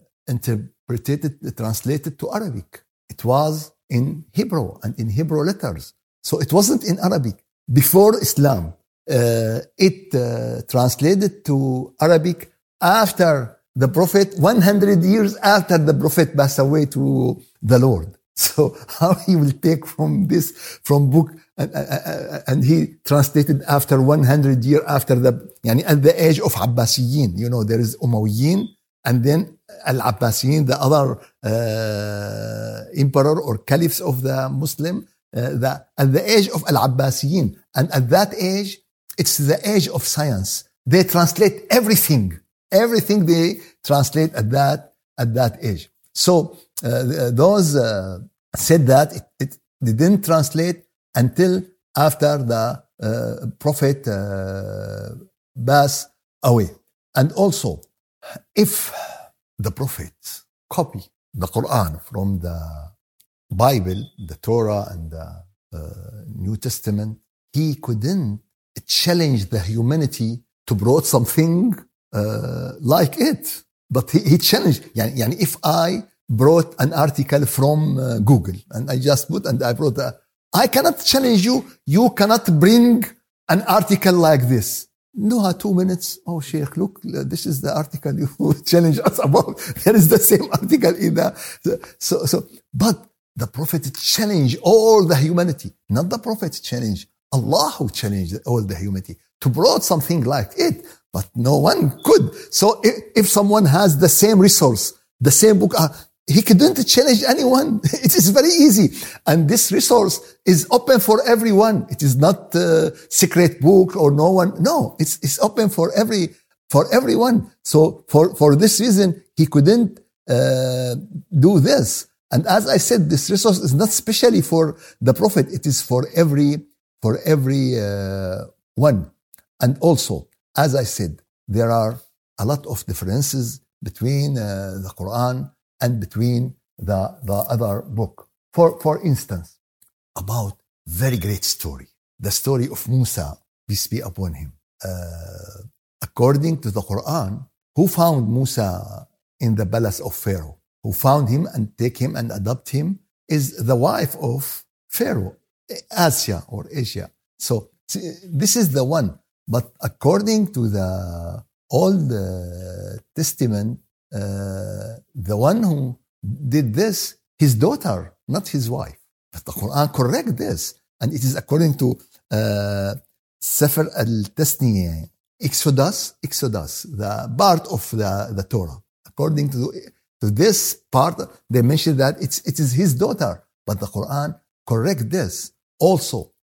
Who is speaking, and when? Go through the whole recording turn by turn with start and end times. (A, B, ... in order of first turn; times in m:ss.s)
0:00.3-0:57.9 A
0:58.5-0:59.0 A
0:59.6-1:02.9 A
1:03.5-2:19.6 A
2:20.1-3:06.3 A